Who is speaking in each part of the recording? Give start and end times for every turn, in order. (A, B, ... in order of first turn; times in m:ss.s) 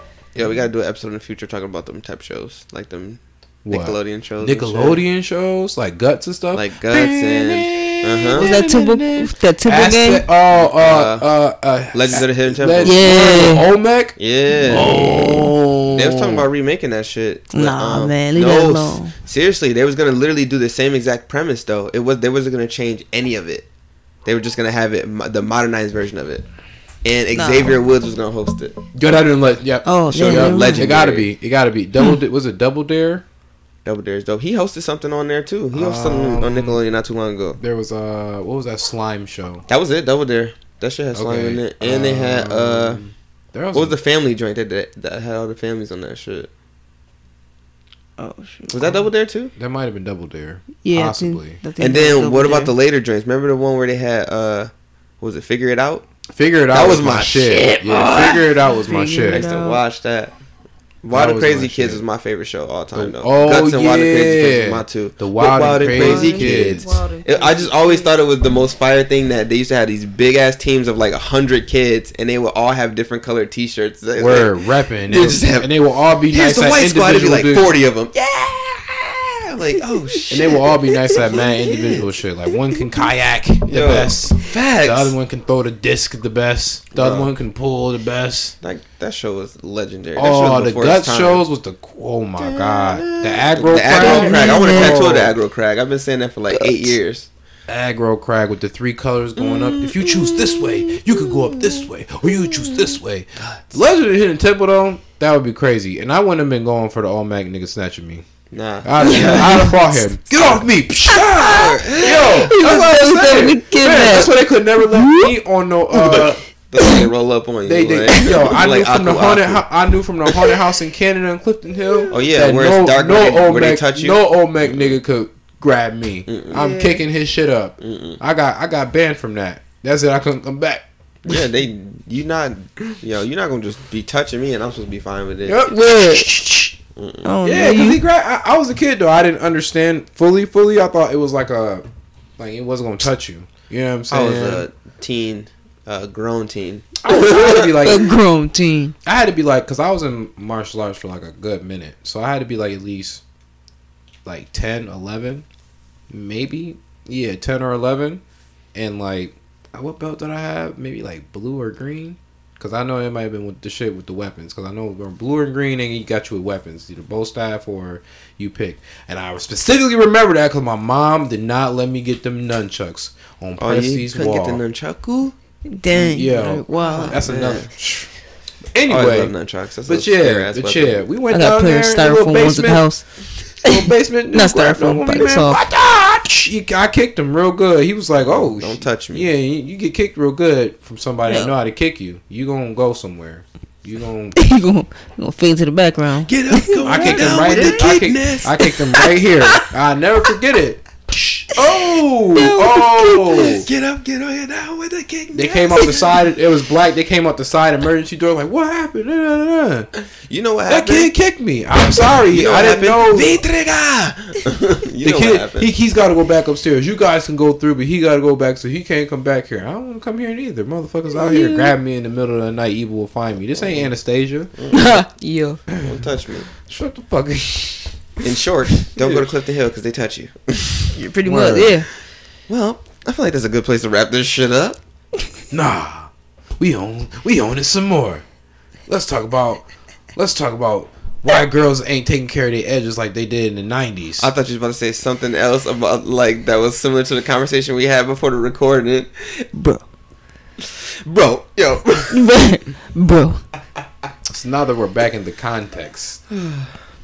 0:00.3-0:05.0 A
0:03.6-0:16.4 B
0:06.5-0:08.5 A
0:08.3-0:10.3 C
0:10.5-0:11.3 A
0:11.9-0:13.5 A
0:12.8-0:13.6 C
0:14.2-0:15.2 A
0:14.8-0:15.4 C
0:15.9-0:23.7 A
0:17.5-0:19.1 C
0:24.2-0:26.4 A
0:27.0-0:28.8 A
0:27.3-0:27.9 C
0:28.9-0:33.2 B
0:29.8-0:30.9 C
0:30.1-0:31.3 A
0:33.8-0:37.6 A
0:35.7-0:36.8 B
0:37.6-0:39.6 B
0:39.7-0:43.0 A
0:41.1-0:44.0 B
0:43.7-0:46.5 A
0:48.2-0:48.8 C
0:48.7-0:49.5 A
0:49.6-0:51.6 B
0:50.8-0:52.7 C
0:51.8-0:56.0 A
0:56.3-0:59.4 B
0:56.7-0:58.4 A
0:58.0-0:59.8 C
0:59.3-1:00.3 A
1:01.0-1:15.7 A
1:01.1-1:02.0 B
1:02.9-1:06.9 B
1:05.7-1:08.1 C
1:14.2-1:17.7 B
1:16.3-1:22.1 A
1:20.3-1:28.6 B
1:23.6-1:25.1 A
1:26.9-1:27.3 A
1:28.6-1:31.4 A
1:30.2-1:35.4 B
1:32.4-1:37.3 A
1:33.8-1:35.0 C
1:37.7-1:48.3 B
1:39.4-1:41.6 A
1:43.4-1:43.6 A
1:48.5-1:49.8 A
1:48.8-1:56.4 B
1:49.1-1:49.7 C
1:51.1-1:54.4 C
1:51.3-1:52.5 A
1:54.9-1:55.2 C
1:55.9-1:59.6 A
1:56.8-1:57.1 C
1:57.6-2:11.4 B
1:58.1-1:58.4 C
2:02.1-2:05.0 A
2:06.3-2:06.9 A
2:06.6-2:06.9 C
2:07.8-2:08.2 A
2:11.2-2:15.7 A
2:15.4-2:16.8 B
2:15.7-2:16.3 C
2:17.0-2:17.3 A
2:17.2-2:18.0 C
2:17.4-2:21.8 B
2:22.4-2:24.7 B
2:24.1-2:27.9 A
2:27.0-2:28.0 B
2:27.8-2:28.9 C
2:29.0-2:33.2 B
2:34.2-2:35.4 B
2:36.1-2:38.2 B
2:38.7-2:54.6 B
2:53.6-2:55.3 A
2:55.6-2:57.2 C
2:55.9-2:57.7 A
2:56.1-2:58.1 B
2:58.7-2:59.3 B
2:58.9-3:01.1 A
2:59.9-3:02.9 B
3:01.3-3:03.0 C
3:03.6-3:14.4 B
3:03.6-3:05.6 C
3:08.2-3:09.3 A
3:11.3-3:11.5 C
3:14.4-3:17.9 C
3:16.3-3:18.7 A
3:16.8-3:23.7 B
3:18.9-3:19.5 C
3:22.3-3:23.6 C
3:23.3-3:26.1 A
3:25.3-3:29.9 B
3:30.2-3:31.1 A
3:30.7-3:33.3 B
3:32.0-3:35.7 A
3:35.0-3:44.5 B
3:41.1-3:41.7 C
3:43.6-3:43.9 A
3:44.6-3:45.0 A
3:44.7-3:45.6 C
3:45.8-3:46.5 A
3:46.6-3:48.2 B
3:48.2-3:51.0 A
3:48.8-3:49.3 B
3:50.9-3:51.9 C
3:51.2-3:51.7 B
3:52.5-3:54.8 A
3:55.5-3:58.2 B
3:58.9-4:04.3 B
4:04.2-4:09.4 A
4:09.5-4:09.8 C
4:10.6-4:12.3 A
4:12.1-4:13.4 C
4:14.3-4:16.2 B
4:16.3-4:16.7 A